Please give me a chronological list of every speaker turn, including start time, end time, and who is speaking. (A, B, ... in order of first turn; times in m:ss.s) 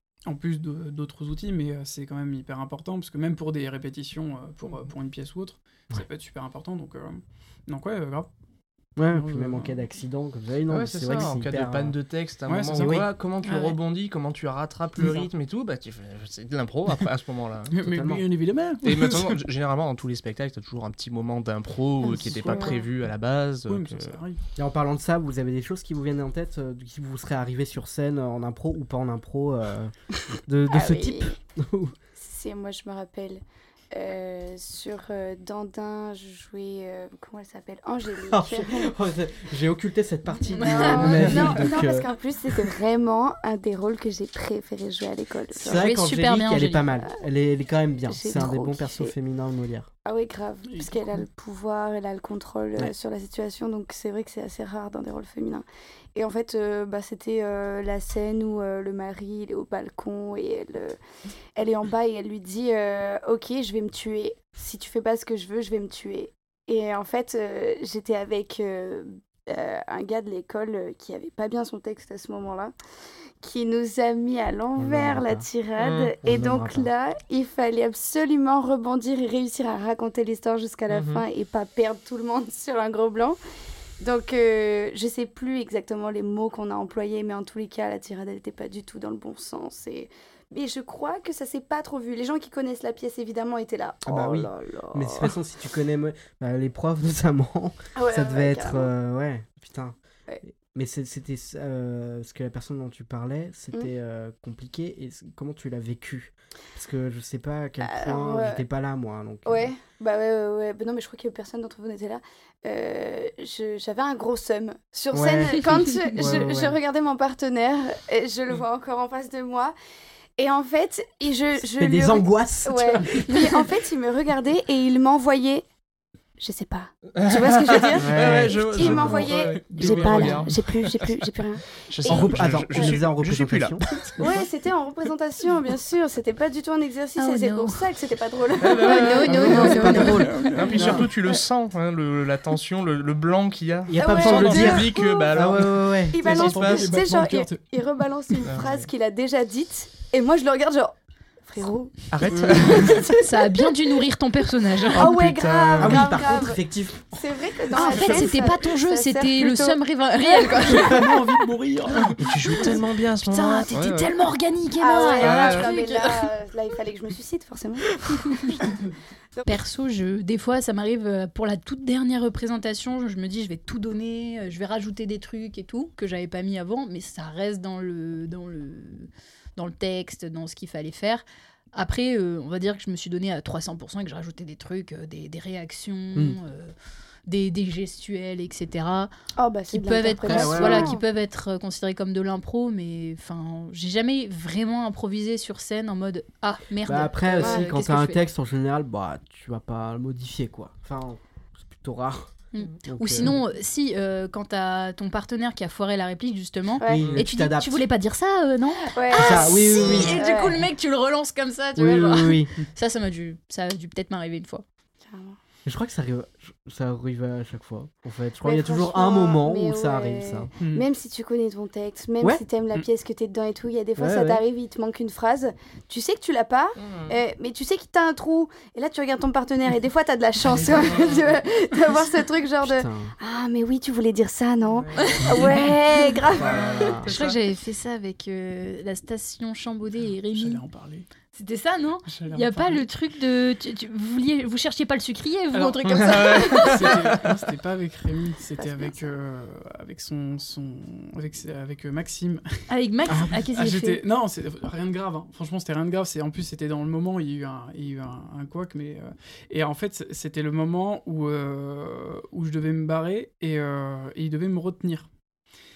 0:00.2-0:08.3 A
0:09.0-0:11.9 B
0:09.1-0:09.8 A
0:10.7-0:17.8 C
0:12.5-0:13.0 A
0:12.7-0:13.1 B
0:13.4-0:13.8 D
0:15.0-0:15.3 A
0:17.7-0:19.4 A
0:17.8-0:18.2 B
0:18.8-0:24.2 C
0:22.0-0:22.9 A
0:22.4-0:22.8 E
0:23.7-0:24.4 A
0:24.6-0:29.9 B
0:30.4-0:31.9 B
0:30.7-0:31.4 E
0:32.2-0:38.9 E
0:38.3-0:42.1 B
0:40.5-0:45.8 E
0:40.5-0:41.2 D
0:45.5-0:49.9 B
0:45.6-0:46.9 D
0:48.1-0:49.1 E
0:50.0-1:01.0 E
0:50.7-0:51.2 A
1:01.6-1:12.7 E
1:13.4-1:23.4 E
1:14.8-1:15.5 B
1:15.8-1:16.1 C
1:16.2-1:16.9 B
1:20.9-1:21.2 C
1:24.0-1:35.3 E
1:34.0-1:40.0 B
1:38.0-1:38.9 E
1:40.5-1:49.7 B
1:47.8-1:48.6 E
1:49.4-1:59.7 E
1:55.1-1:56.8 B
2:00.4-2:05.6 E
2:01.8-2:03.6 B
2:06.4-2:13.0 E
2:07.2-2:11.1 C
2:07.9-2:09.4 B
2:09.5-2:10.5 A
2:09.9-2:10.3 B
2:11.9-2:14.4 C
2:12.1-2:13.8 B
2:14.2-2:19.5 E
2:17.2-2:17.8 D
2:18.6-2:27.0 C
2:18.8-2:20.5 D
2:19.3-2:21.1 B
2:19.4-2:21.1 A
2:23.9-2:26.2 B
2:24.0-2:25.4 E
2:26.1-2:30.9 E
2:26.2-2:27.7 A
2:28.4-2:28.8 C
2:31.4-2:32.0 E
2:32.1-2:33.1 C
2:32.4-2:32.7 B
2:32.6-2:33.0 E
2:33.2-2:35.1 D
2:34.9-2:36.0 C
2:34.9-2:36.6 E
2:35.8-2:37.3 B
2:37.1-2:39.8 E
2:37.7-2:41.0 D
2:37.8-2:38.4 B
2:40.8-2:42.4 A
2:42.2-2:44.1 C
2:43.2-2:46.3 D
2:44.8-2:48.0 E
2:45.2-2:45.7 C
2:48.2-2:48.5 D
2:49.3-2:49.6 E
2:49.4-3:06.7 D
3:07.3-3:09.1 D
3:09.4-3:11.0 E
3:09.7-3:18.2 D
3:10.2-3:11.0 B
3:16.8-3:22.3 B
3:17.4-3:17.6 E
3:22.5-3:34.6 D
3:22.8-3:23.4 B
3:26.8-3:27.1 E
3:26.8-3:27.8 B
3:28.9-3:30.6 E
3:29.1-3:30.2 B
3:31.8-3:32.5 B
3:35.1-3:35.4 E
3:35.6-3:40.5 B
3:38.4-3:56.9 E
3:40.6-3:40.8 A
3:44.0-3:44.4 B
3:46.8-3:47.2 C
3:50.5-3:51.2 C
3:52.6-3:53.1 B
3:54.8-3:55.2 A
3:55.0-3:55.5 D
3:56.3-3:57.1 B
3:56.4-3:57.0 C
3:57.0-4:00.6 D
4:00.2-4:01.1 A
4:01.3-4:06.8 D
4:02.0-4:02.9 A
4:05.5-4:12.4 A
4:05.9-4:07.3 C
4:12.7-4:14.0 D
4:13.1-4:13.4 B
4:13.5-4:25.1 A